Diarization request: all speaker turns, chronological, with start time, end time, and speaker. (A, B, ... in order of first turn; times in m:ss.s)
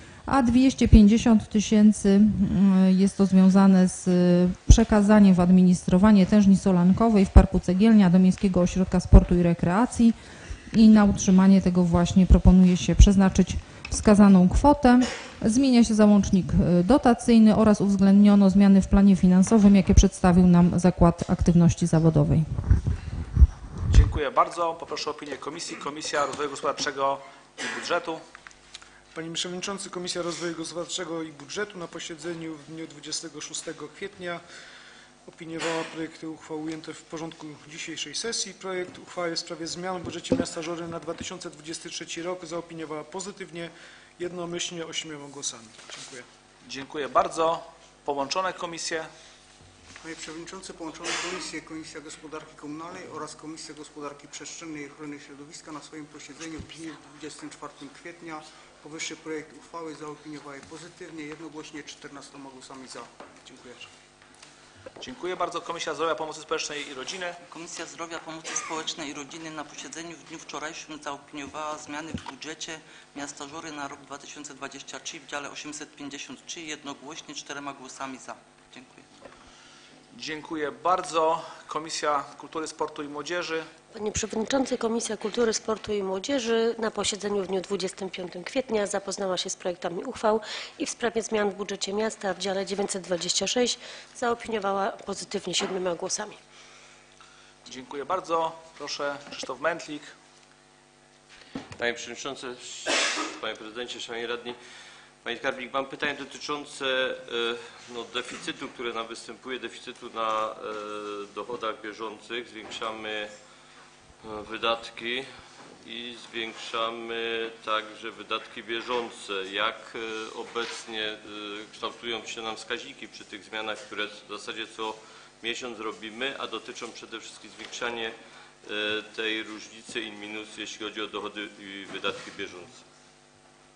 0:00.2-0:10.2 A
0:10.7-0:22.6 A
0:23.9-0:28.2 B
0:29.1-0:34.4 C
0:35.3-0:43.3 C
0:44.2-0:45.5 C
0:46.6-0:49.1 B
0:50.0-1:03.9 D
1:05.0-1:07.4 B
1:07.5-1:19.1 E
1:20.1-1:23.7 B
1:23.9-1:36.4 F
1:37.6-1:40.1 B
1:41.8-1:44.6 G
1:45.2-1:53.3 G
1:54.2-2:12.8 G